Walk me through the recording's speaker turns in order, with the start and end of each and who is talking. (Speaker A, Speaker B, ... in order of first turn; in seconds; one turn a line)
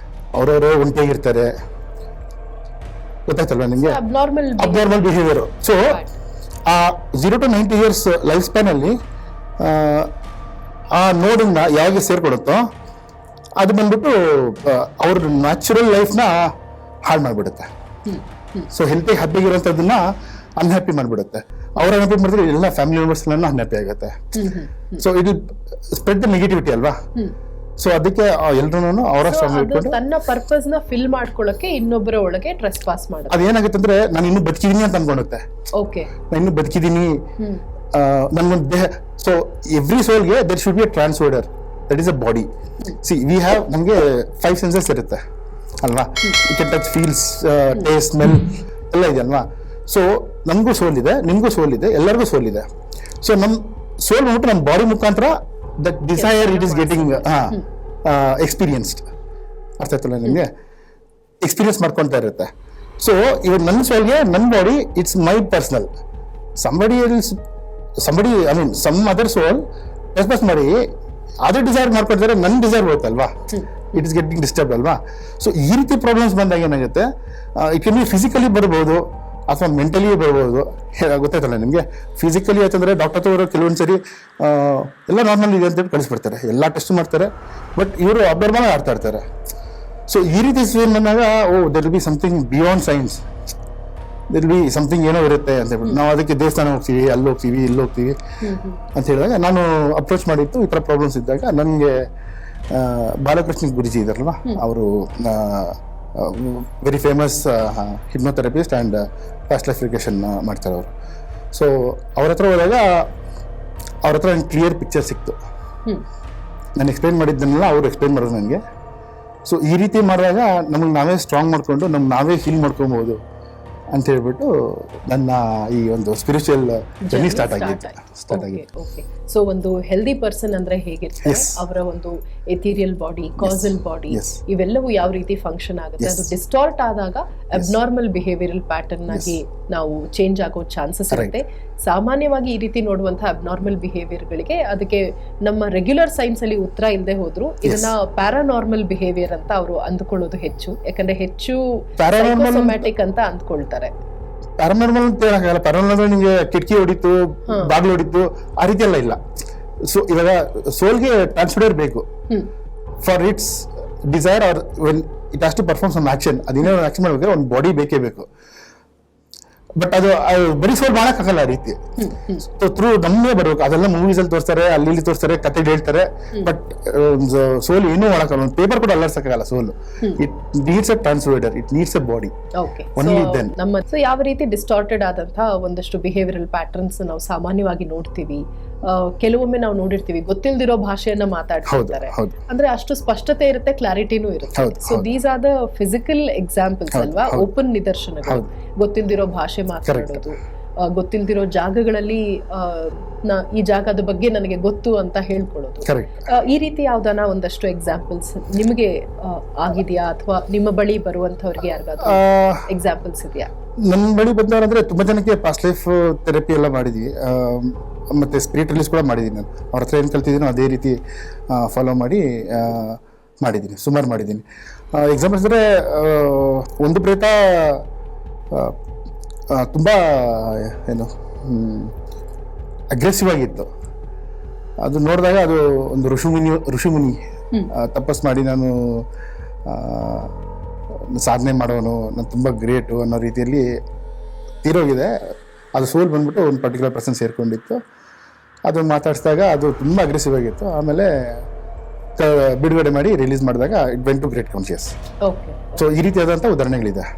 Speaker A: 0.3-1.5
Speaker A: 3.3-4.0
Speaker B: 3.8-5.2
Speaker A: 4.6-6.0
Speaker B: 5.8-6.1
Speaker A: 6.7-8.9
Speaker A: 9.6-10.1
Speaker A: 10.9-12.6
Speaker A: 13.6-16.5
Speaker A: 17.1-17.7
Speaker B: 18.1-18.7
Speaker A: 18.7-20.0
Speaker A: 20.6-24.3
Speaker B: 24.3-25.0
Speaker A: 25.0-27.0
Speaker A: 27.8-30.0
Speaker B: 29.2-33.4
Speaker A: 33.3-35.4
Speaker B: 35.8-36.1
Speaker A: 36.3-37.2
Speaker A: 37.9-45.2
Speaker A: 45.8-52.6
Speaker A: 53.2-59.0
Speaker B: 56.1-57.6
Speaker A: 59.8-60.5
Speaker A: 61.4-62.5
Speaker A: 63.0-65.9
Speaker A: 66.6-67.4
Speaker A: 68.0-70.8
Speaker A: 71.4-73.3
Speaker A: 73.9-89.2
Speaker A: 90.1-93.2
Speaker A: 94.3-98.2
Speaker B: 98.4-98.8
Speaker A: 98.9-102.1
Speaker A: 102.7-110.9
Speaker A: 111.5-113.1
Speaker A: 114.0-115.4
Speaker A: 116.8-118.6
Speaker A: 119.5-123.2
Speaker A: 123.9-128.6
Speaker B: 127.1-153.9
Speaker A: 131.2-131.6
Speaker A: 133.4-134.4
Speaker A: 136.0-136.2
Speaker A: 139.1-139.3
Speaker A: 147.6-147.9
Speaker A: 152.0-152.8
Speaker A: 154.6-159.2
Speaker A: 159.8-162.1
Speaker A: 163.0-168.3
Speaker A: 169.8-171.8
Speaker B: 172.0-172.4
Speaker A: 172.4-182.3
Speaker B: 182.6-213.5
Speaker A: 183.0-183.5
Speaker A: 191.7-192.3
Speaker A: 194.6-195.1
Speaker A: 196.9-197.5
Speaker A: 199.8-200.2
Speaker A: 205.8-206.2
Speaker A: 212.0-212.6
Speaker A: 213.9-227.8
Speaker A: 228.5-228.8
Speaker A: 229.5-231.9
Speaker A: 232.9-233.7
Speaker A: 234.8-237.2
Speaker A: 237.7-239.1
Speaker A: 239.7-240.3
Speaker A: 241.1-243.7
Speaker A: 244.6-245.1
Speaker A: 245.7-247.8
Speaker A: 248.7-251.4
Speaker A: 252.2-254.9
Speaker B: 255.2-255.8
Speaker A: 255.8-257.1